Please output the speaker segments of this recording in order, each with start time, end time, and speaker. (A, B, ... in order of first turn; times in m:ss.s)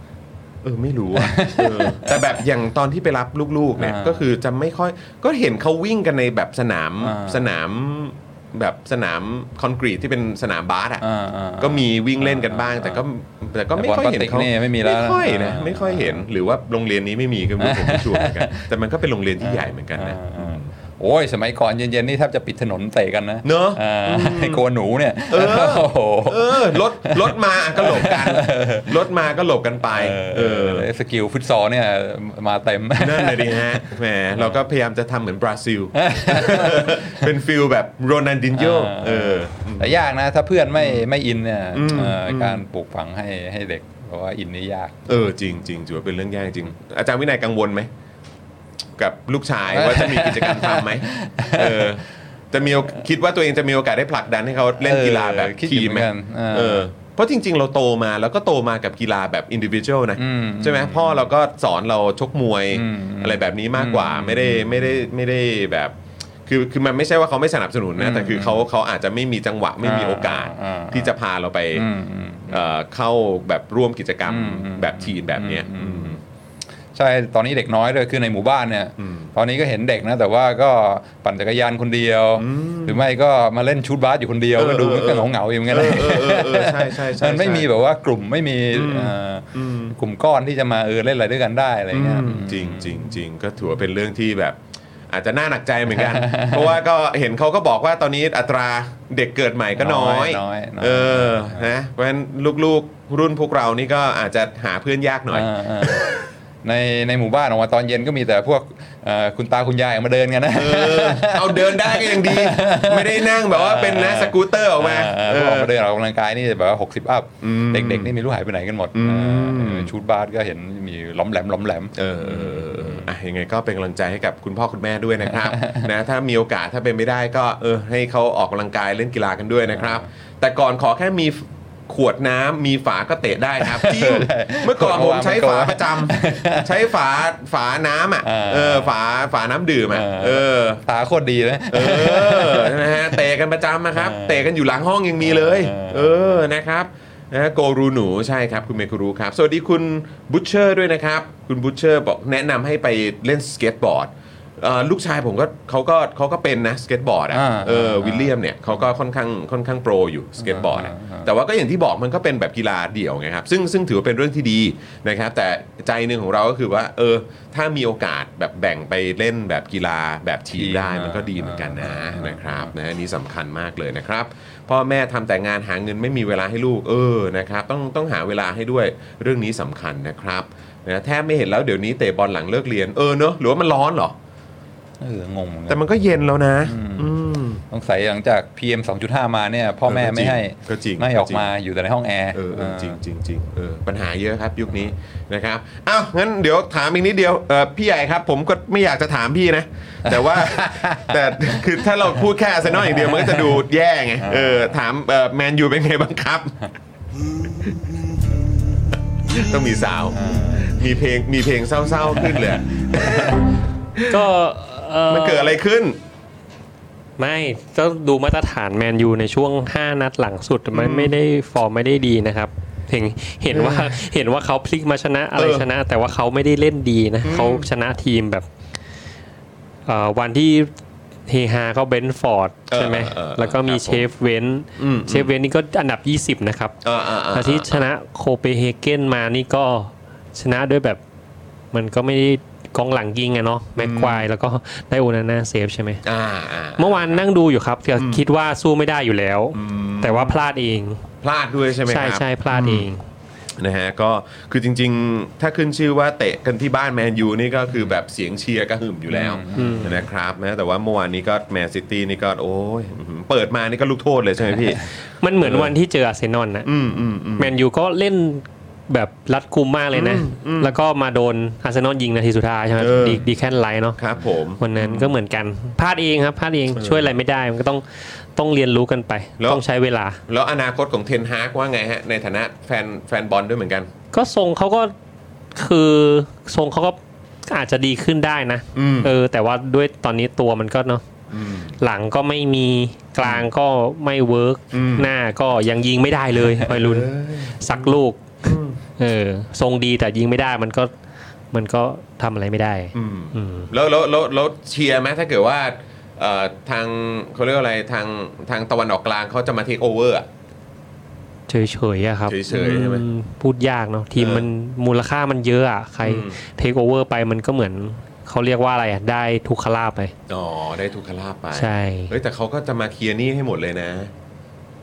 0:00.6-0:11.0 A
0:01.1-0:02.4 B
0:03.8-0:04.3 B
0:07.0-0:07.5 B
0:11.0-0:13.0 B
0:11.6-0:20.7 A
0:13.8-0:16.3 B
0:17.6-0:18.7 B
0:19.4-0:28.9 B
0:23.4-0:24.6 A
0:25.3-0:30.9 A
0:29.9-0:34.6 B
0:33.0-0:40.0 A
0:36.0-0:37.3 B
0:38.5-0:45.0 B
0:40.8-0:41.1 A
0:41.7-0:42.6 A
0:45.1-0:47.9 A
0:49.0-1:06.0 A
0:49.7-0:52.0 B
0:54.8-0:56.9 B
1:00.2-1:01.3 B
1:02.7-1:05.0 B
1:06.5-1:11.9 A
1:08.0-1:08.7 B
1:09.8-1:11.1 B
1:11.8-1:12.7 B
1:12.5-1:16.2 A
1:14.3-1:16.2 B
1:16.9-1:33.2 B
1:19.0-1:19.3 A
1:22.4-1:23.0 A
1:24.6-1:27.7 A
1:28.7-1:30.0 A
1:31.9-1:46.2 A
1:35.9-1:36.8 B
1:39.8-1:41.7 B
1:45.3-2:03.1 B
1:50.6-1:55.7 A
1:57.4-1:58.1 A
1:58.9-1:59.9 A
2:02.0-2:20.8 A
2:05.2-2:05.9 B
2:09.7-2:10.1 B
2:13.6-2:16.7 B
2:18.2-2:18.9 B
2:19.9-2:23.2 B
2:21.7-3:04.2 A
2:24.0-2:24.5 B
2:25.2-2:26.4 B
2:37.3-2:38.3 B
2:40.4-2:41.3 B
2:50.5-2:52.7 B
3:05.0-3:05.8 B
3:05.7-3:07.6 A
3:06.6-3:07.2 B
3:07.7-3:13.0 B
3:09.9-3:11.5 A
3:12.3-3:26.6 A
3:20.1-3:21.6 B
3:22.7-3:23.6 B
3:24.2-3:24.8 B
3:27.5-3:27.9 A
3:29.2-3:34.2 A
3:30.1-3:30.8 B
3:32.2-3:33.4 B
3:34.1-3:35.6 C
3:35.1-3:36.0 A
3:37.2-3:48.4 C
3:40.7-3:41.2 A
3:43.5-3:44.0 A
3:45.4-3:45.7 A
3:47.2-3:47.7 A
3:49.9-3:50.7 C
3:51.3-3:56.8 C
3:52.7-3:54.1 A
3:54.8-3:55.3 A
3:56.8-3:57.8 A
3:57.3-4:01.0 C
4:01.7-4:06.1 C
4:03.8-4:04.3 A
4:06.0-4:07.2 A
4:06.8-4:11.0 C
4:08.0-4:08.2 A
4:09.5-4:10.4 A
4:11.2-4:12.9 A
4:11.9-4:13.0 C
4:13.6-4:24.9 A
4:19.1-4:19.9 B
4:19.6-4:20.0 C
4:25.2-4:26.7 C
4:25.4-4:25.7 A
4:26.6-4:27.6 A
4:27.4-4:34.0 C
4:29.9-4:30.8 A
4:32.8-4:33.3 A
4:34.0-4:35.2 A
4:34.6-4:40.2 C
4:36.8-4:37.1 A
4:40.3-4:43.9 A
4:44.1-4:44.9 C
4:45.6-4:47.0 C
4:47.5-4:51.0 C
4:48.8-4:49.1 A
4:51.3-4:51.8 A
4:51.8-5:00.9 C
4:53.2-4:53.5 A
4:54.7-4:55.1 A
4:56.6-4:58.8 A
5:01.5-5:03.7 C
5:02.9-5:10.3 A
5:11.5-5:20.1 C
5:12.3-5:13.1 A
5:14.2-5:14.5 A
5:16.0-5:16.4 A
5:20.3-5:24.1 A
5:21.5-5:22.1 C